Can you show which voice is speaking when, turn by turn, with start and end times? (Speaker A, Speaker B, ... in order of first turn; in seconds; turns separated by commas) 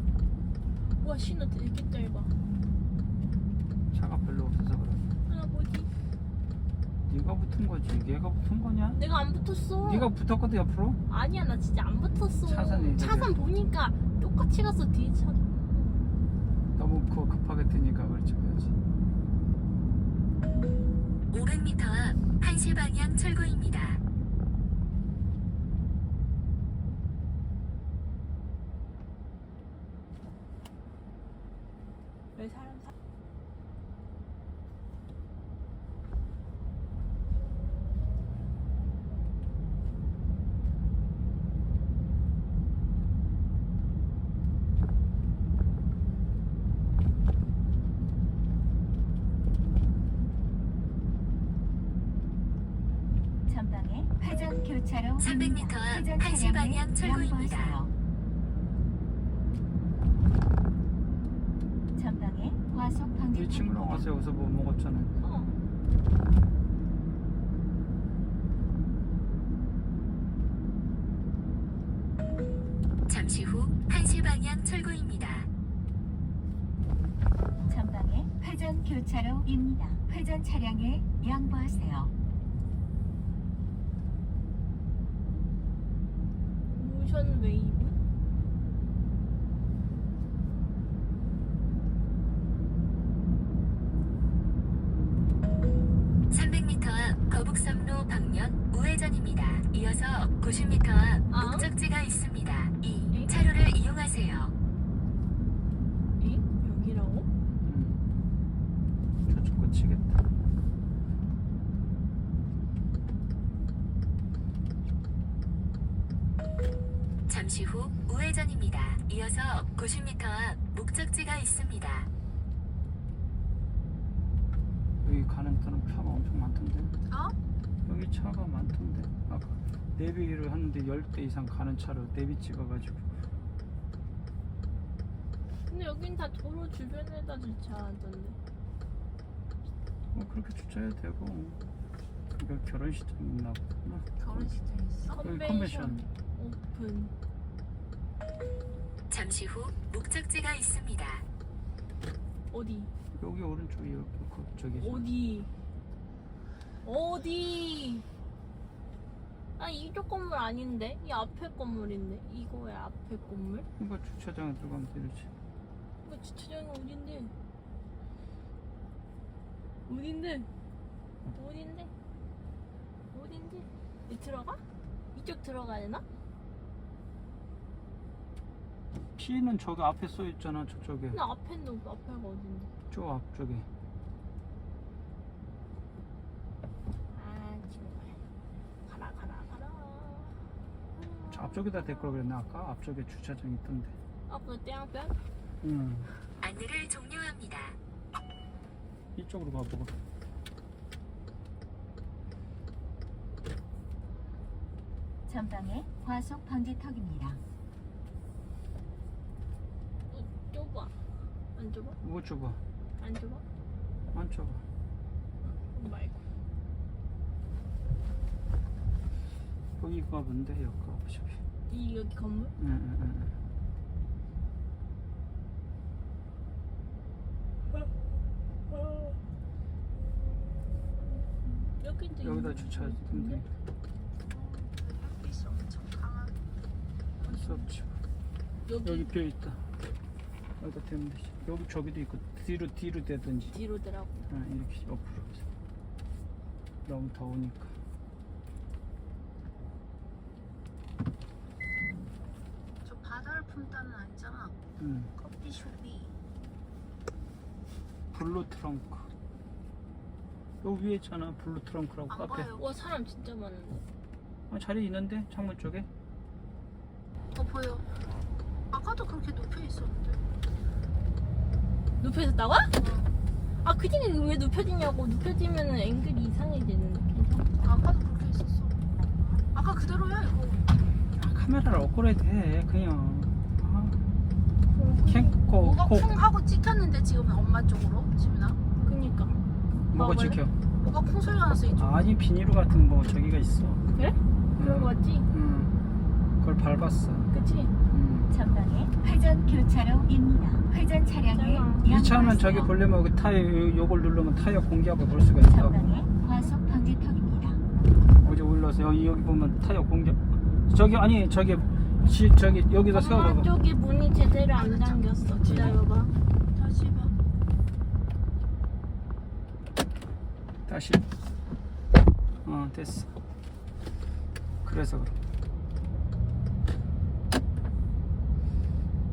Speaker A: 1.0-2.3, Speaker B: 3.9-5.1, Speaker A: 5.3-5.9, Speaker B: 7.1-9.0, Speaker A: 8.9-10.1, Speaker B: 9.8-11.0, Speaker A: 11.1-16.0, Speaker B: 12.4-13.4, Speaker B: 16.8-18.7, Speaker C: 21.3-24.0, Speaker A: 32.3-32.9, Speaker D: 53.9-55.1, Speaker C: 55.2-57.9, Speaker D: 62.1-63.2, Speaker B: 63.2-65.1, Speaker A: 65.2-65.6, Speaker C: 73.1-75.5, Speaker D: 77.7-82.1, Speaker A: 86.7-88.0, Speaker C: 96.3-104.5, Speaker A: 101.3-101.7, Speaker A: 106.2-107.3, Speaker B: 107.6-108.0, Speaker B: 109.3-110.2, Speaker C: 117.3-122.1, Speaker B: 125.0-126.9, Speaker E: 127.1-127.3, Speaker B: 127.8-133.1, Speaker A: 135.7-138.4, Speaker B: 140.1-141.6, Speaker B: 142.3-144.5, Speaker E: 144.2-145.2, Speaker A: 145.1-147.1, Speaker B: 145.2-146.0, Speaker C: 149.1-151.2, Speaker A: 152.5-152.9, Speaker B: 153.1-155.1, Speaker A: 154.8-155.5, Speaker A: 156.8-158.1, Speaker A: 159.6-163.7, Speaker B: 163.8-165.3, Speaker A: 166.0-167.3, Speaker A: 169.8-170.5, Speaker A: 171.3-171.9, Speaker A: 173.1-176.0, Speaker B: 179.2-181.2, Speaker A: 181.1-182.7, Speaker B: 182.9-183.7, Speaker A: 187.1-188.2, Speaker A: 188.8-190.4, Speaker A: 190.9-192.1, Speaker B: 191.3-193.9, Speaker A: 194.3-195.2, Speaker B: 195.6-196.1, Speaker C: 196.4-197.8, Speaker B: 199.1-199.9, Speaker D: 205.3-207.4, Speaker A: 210.1-211.0, Speaker A: 211.5-212.0, Speaker B: 212.0-212.6, Speaker A: 213.0-213.4, Speaker B: 214.1-214.6, Speaker A: 215.4-216.2, Speaker B: 219.8-221.4, Speaker A: 221.7-222.5, Speaker B: 222.6-223.3, Speaker A: 231.6-233.4, Speaker B: 232.2-233.5, Speaker E: 234.2-236.3, Speaker B: 237.2-237.9, Speaker A: 238.6-239.1, Speaker B: 238.8-239.7, Speaker B: 240.6-243.6, Speaker A: 243.5-244.2, Speaker B: 244.3-245.4, Speaker B: 246.8-247.8, Speaker E: 252.8-254.6, Speaker B: 254.8-255.1, Speaker E: 255.1-256.2, Speaker B: 258.1-259.1, Speaker B: 260.6-262.5, Speaker E: 262.1-262.7, Speaker A: 262.6-263.8, Speaker B: 264.5-265.9, Speaker E: 267.3-267.9, Speaker E: 268.7-270.2, Speaker A: 272.0-272.7, Speaker E: 272.7-273.2, Speaker A: 273.6-277.5, Speaker E: 277.6-278.8, Speaker E: 279.4-280.8, Speaker B: 281.1-284.0, Speaker A: 284.7-285.3, Speaker B: 285.0-286.2, Speaker E: 285.5-288.6, Speaker A: 288.8-289.4, Speaker B: 289.9-290.5, Speaker E: 289.9-292.1, Speaker B: 291.7-293.8, Speaker A: 293.9-295.3, Speaker B: 294.6-295.7, Speaker B: 296.4-297.3, Speaker A: 297.3-297.7, Speaker B: 297.9-298.4, Speaker D: 298.5-300.4, Speaker A: 301.1-302.0, Speaker B: 301.8-306.1, Speaker D: 306.8-307.6, Speaker B: 308.2-313.5, Speaker A: 312.9-316.1, Speaker E: 314.5-315.8, Speaker E: 316.5-317.1, Speaker B: 320.7-321.0, Speaker B: 322.4-323.1, Speaker B: 324.6-325.2